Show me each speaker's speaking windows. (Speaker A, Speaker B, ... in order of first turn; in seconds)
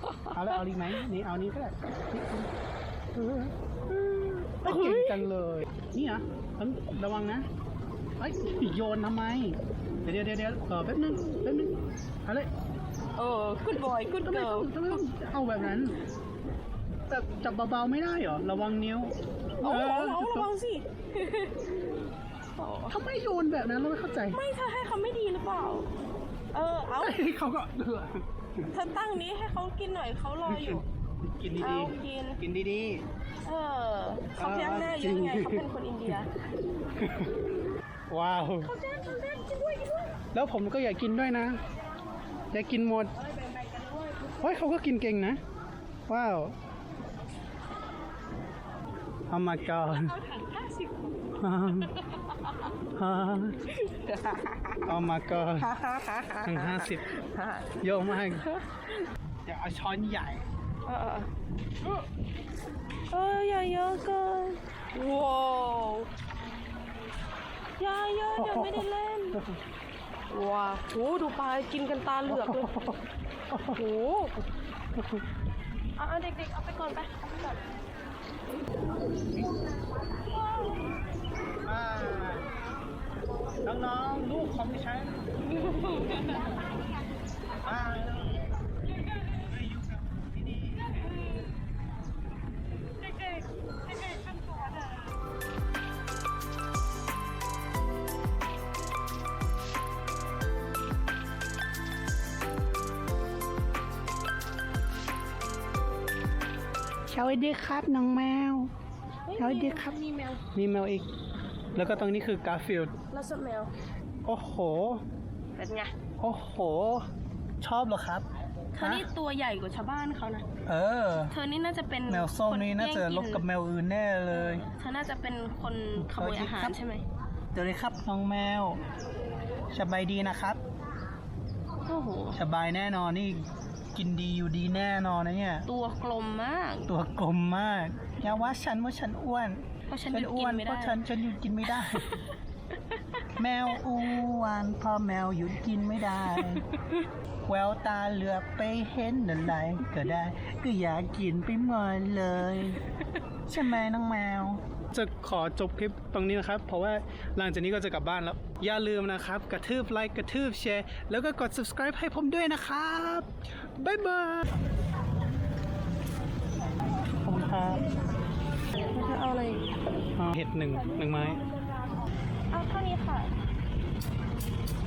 Speaker A: 0.3-2.5, 3.1-7.5, 8.2-11.7, 13.8-16.0, 17.1-20.5, 22.9-24.4, 27.0-28.2, 31.3-33.0, 34.4-35.6, 37.0-37.3, 38.1-38.7, 40.3-41.6, 42.5-43.1, 44.4-45.4, 46.1-46.5, 49.3-50.2, 51.4-51.9, 53.0-53.6, 54.8-55.7, 56.4-57.1, 57.8-58.5, 59.5-60.4, 68.3-69.6, 72.3-73.8, 81.6-82.5, 83.6-85.2, 87.6-88.3, 89.4-90.9, 107.1-108.7, 109.4-110.0, 110.5-111.1, 111.7-112.9, 114.2-115.0, 116.2-117.1, 117.6-118.2, 118.8-119.0, 120.7-121.3, 122.1-124.7, 126.0-126.8, 127.5-128.8, 129.7-130.6, 132.3-135.7, 136.9-142.1, 143.3-146.6, 147.5-152.8, 153.5-164.6, 167.2-167.9, 170.1-171.4
Speaker B: 4.6-5.3, 13.2-15.0, 19.6-21.7, 22.6-23.0, 24.3-25.9, 26.5-27.2, 28.7-30.9, 31.6-32.4, 33.4-36.3, 38.6-40.2, 43.2-44.6, 50.1-51.0, 53.7-54.9, 55.4-58.8, 60.9-61.3, 63.1-66.1, 67.8-69.4, 70.3-72.9, 73.7-74.4, 76.0-77.6, 85.6-86.4, 109.3-110.4, 113.1-113.7, 115.5-115.9, 118.7-120.5, 121.3-123.5, 124.3-127.0, 131.9-132.4, 135.7-136.9, 139.9-141.0, 141.8-142.2, 146.3-147.0, 168.7-169.7, 170.8-173.3